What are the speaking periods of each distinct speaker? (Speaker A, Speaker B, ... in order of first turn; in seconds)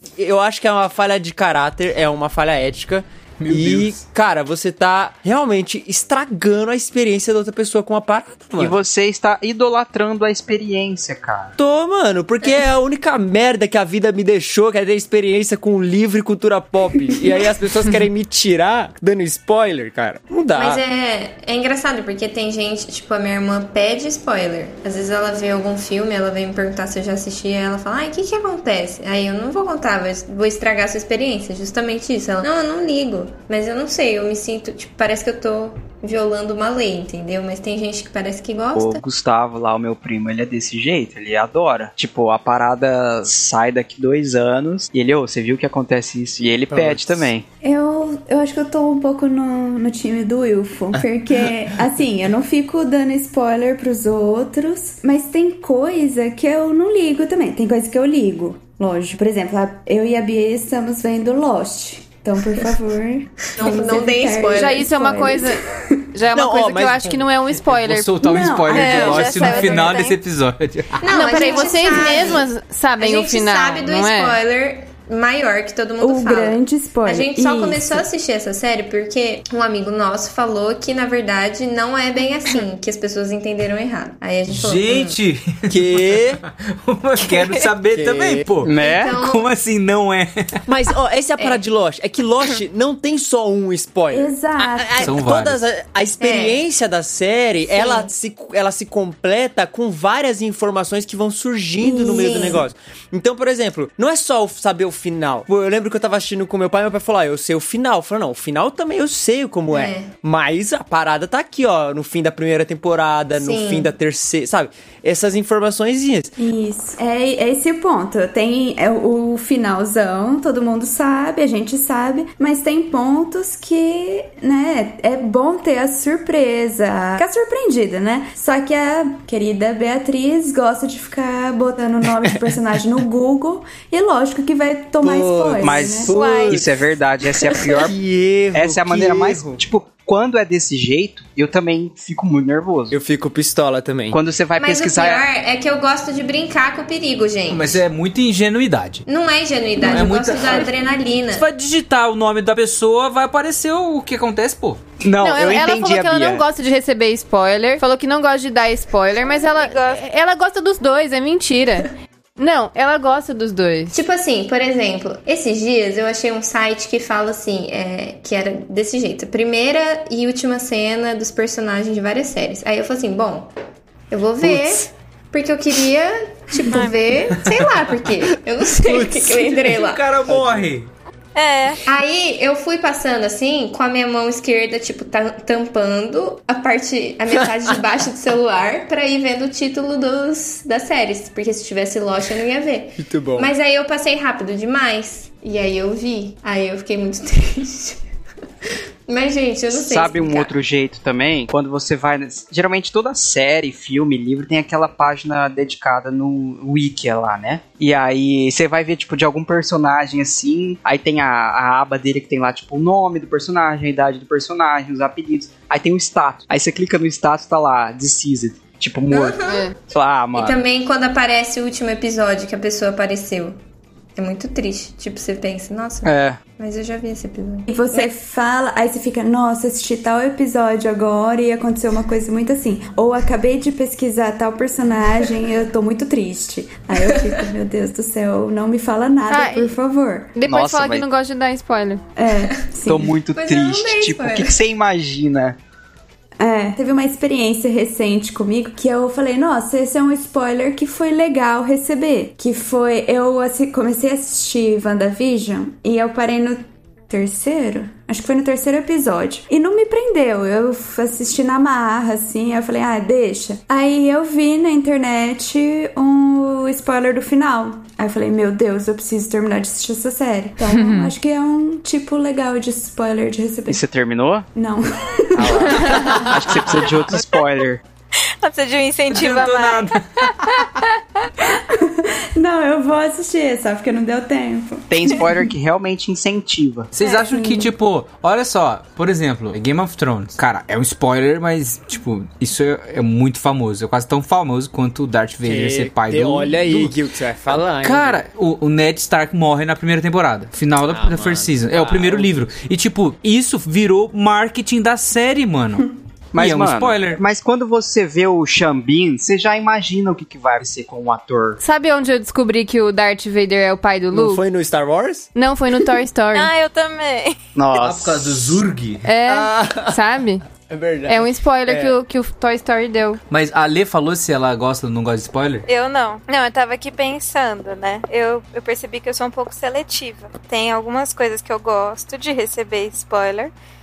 Speaker A: 0.2-8.8, 11.6-20.8, 46.7-47.3, 66.3-67.8, 85.7-86.4, 87.9-88.5, 90.7-116.3, 135.0-136.8, 137.4-139.6, 142.9-144.2, 180.3-180.7, 193.0-193.5, 295.4-298.2, 300.9-302.4, 314.1-315.3, 319.3-320.0, 320.6-321.9
Speaker B: 3.4-4.0, 67.8-71.2, 84.5-90.6, 95.0-95.6, 147.5-149.0, 149.8-154.8, 178.8-180.9, 279.1-280.7, 286.9-296.9, 297.5-307.2, 317.8-319.1, 323.3-325.7
Speaker C: 8.6-11.6, 38.8-47.5, 88.6-89.2, 135.6-138.0, 138.5-143.0, 144.1-145.2, 155.0-156.4, 199.7-220.6, 226.0-226.4, 240.4-241.1, 242.9-245.6, 273.7-274.5, 275.4-277.8, 284.9-286.9, 306.3-311.6, 317.6-318.5
Speaker D: 20.5-39.0, 63.4-65.0, 69.0-69.9, 71.0-85.2, 88.8-89.5, 96.2-96.6, 97.7-98.1, 101.8-102.6, 109.7-110.1, 113.4-113.9, 144.6-147.8, 149.1-151.5, 163.9-173.5, 174.1-180.1, 181.9-198.0, 198.7-200.5, 219.1-219.6, 220.3-223.6, 224.2-228.1, 243.3-244.6
Speaker E: 47.6-66.1, 68.2-68.8, 76.0-78.1, 94.1-95.2, 116.4-136.1, 227.7-240.3, 242.2-243.1, 246.4-273.8, 274.6-276.2, 281.4-285.5, 287.3-287.7
Speaker F: 64.5-69.5, 71.1-74.4, 155.2-163.9, 219.4-219.8, 239.3-239.7, 240.3-242.0, 270.7-271.1, 311.6-314.4, 315.4-316.5, 319.0-320.4, 321.1-323.2
Speaker G: 68.7-70.2, 136.1-136.5, 159.3-160.1, 176.7-177.0, 181.3-181.8, 278.3-280.7, 316.3-317.4, 325.7-333.5